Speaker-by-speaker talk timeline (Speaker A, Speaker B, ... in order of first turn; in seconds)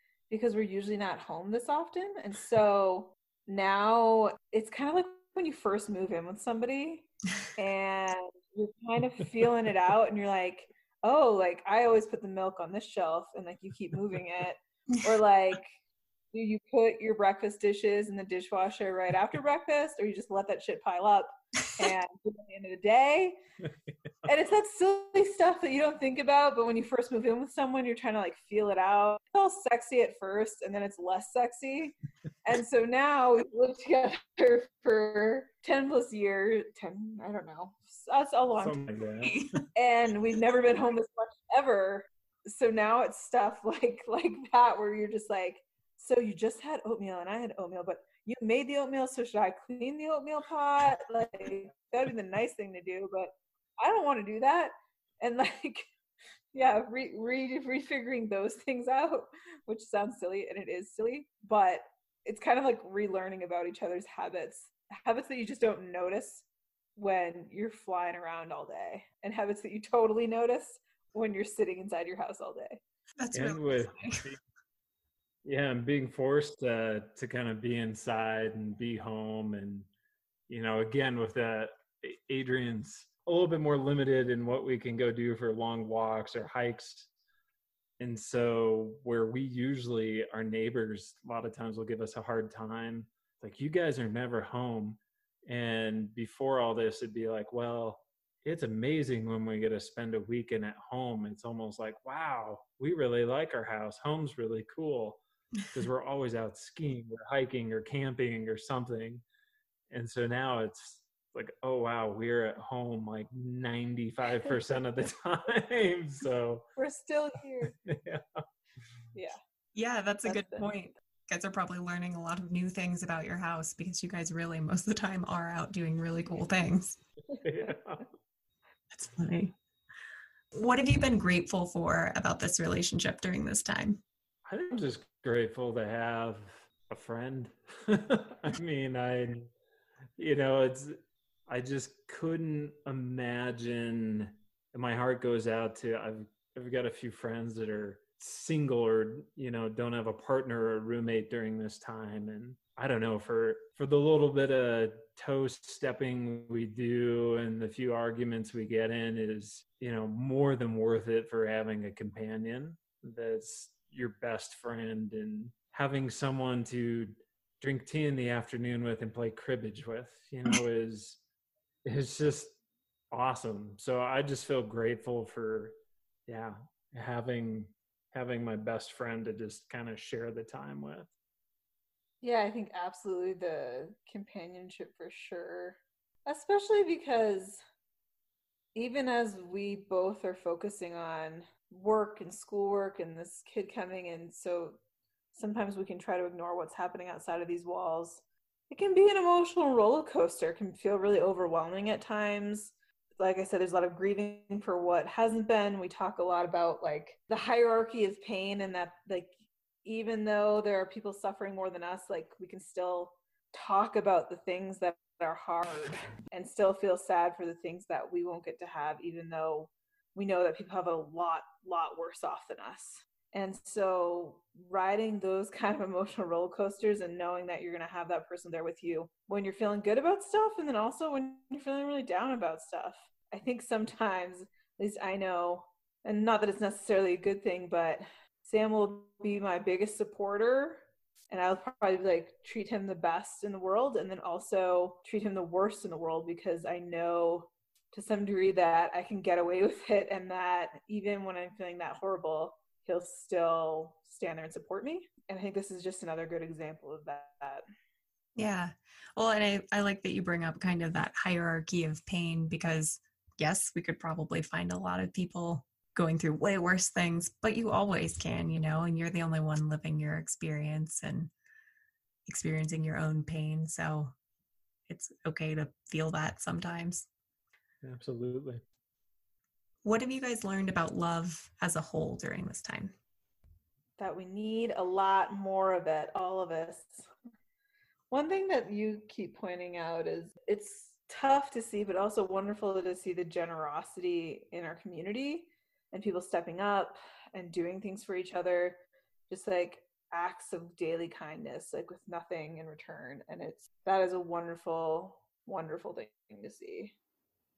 Speaker A: 0.3-15.7, 16.3-23.4, 24.2-31.9, 32.4-38.8, 39.7-55.9, 56.5-72.8, 116.8-117.7, 119.1-119.4, 120.2-120.7, 182.2-187.6, 188.7-194.8, 195.3-209.3, 209.8-257.6, 284.0-287.1, 288.1-306.9
Speaker B: 23.6-23.9, 38.6-39.4, 73.3-74.4, 75.4-79.9, 80.5-87.1, 88.0-105.2, 105.7-109.2, 109.9-116.6, 117.7-118.4, 127.4-128.1, 134.4-139.5, 140.2-171.2, 171.8-172.6, 173.1-175.8, 176.3-181.1, 277.8-278.6
Speaker C: 39.2-39.6, 73.2-74.3, 119.7-127.0, 128.9-129.5, 130.5-134.0, 258.4-271.3, 272.3-274.1, 274.9-277.1, 279.8-282.9